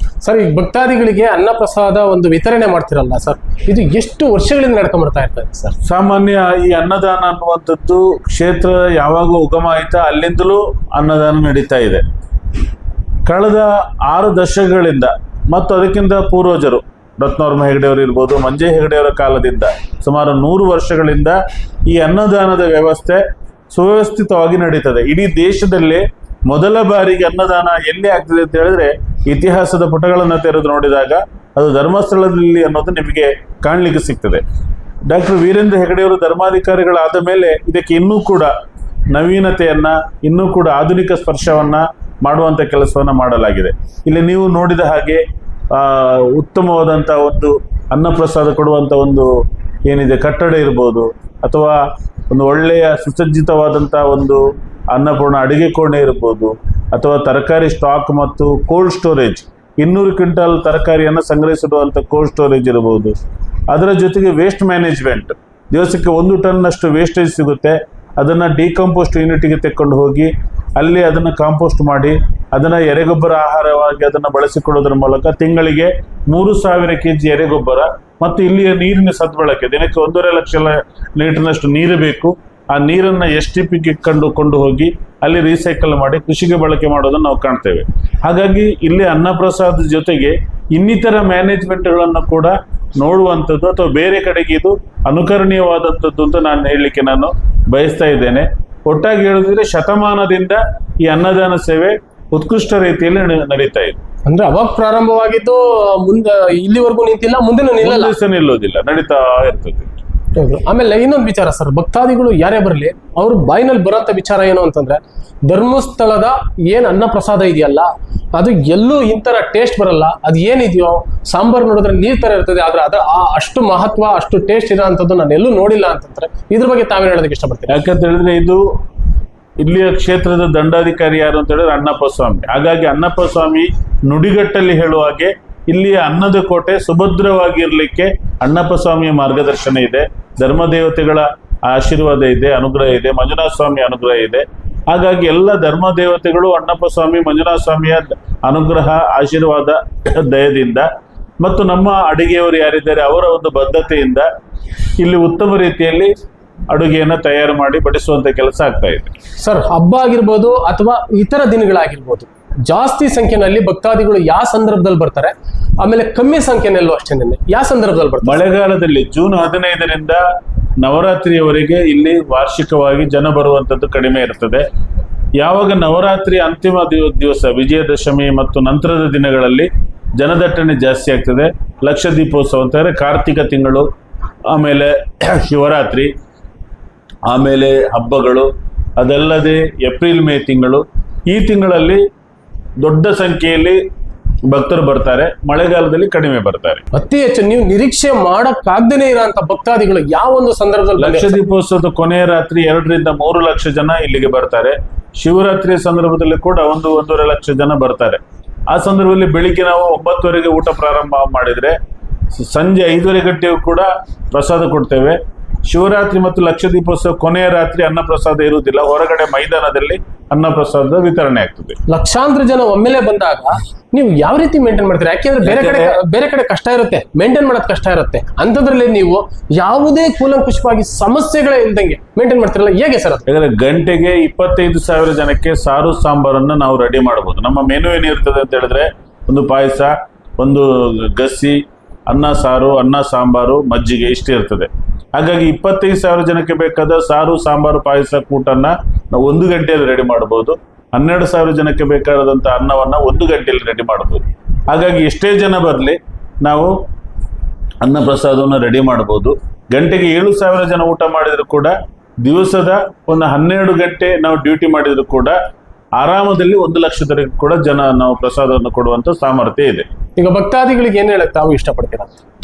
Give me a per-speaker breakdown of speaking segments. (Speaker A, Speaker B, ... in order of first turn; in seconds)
Speaker A: 0.2-5.8, 104.3-108.1, 110.4-127.8, 159.4-168.4, 196.9-201.4, 221.9-233.2, 270.2-272.1
Speaker B: 5.9-12.0, 13.2-21.4, 21.9-34.4, 35.1-38.5, 39.1-49.3, 49.9-51.8, 52.3-54.4, 54.9-63.1, 63.7-104.0, 107.8-109.9, 127.7-128.6, 129.6-150.9, 151.4-154.2, 155.0-156.1, 156.7-159.1, 168.2-170.2, 170.8-174.6, 175.4-183.8, 184.5-186.1, 187.3-192.0, 192.8-193.8, 194.5-196.8, 201.0-211.8, 212.3-221.8, 225.4-226.0, 233.3-256.7, 257.8-265.4, 266.0-269.9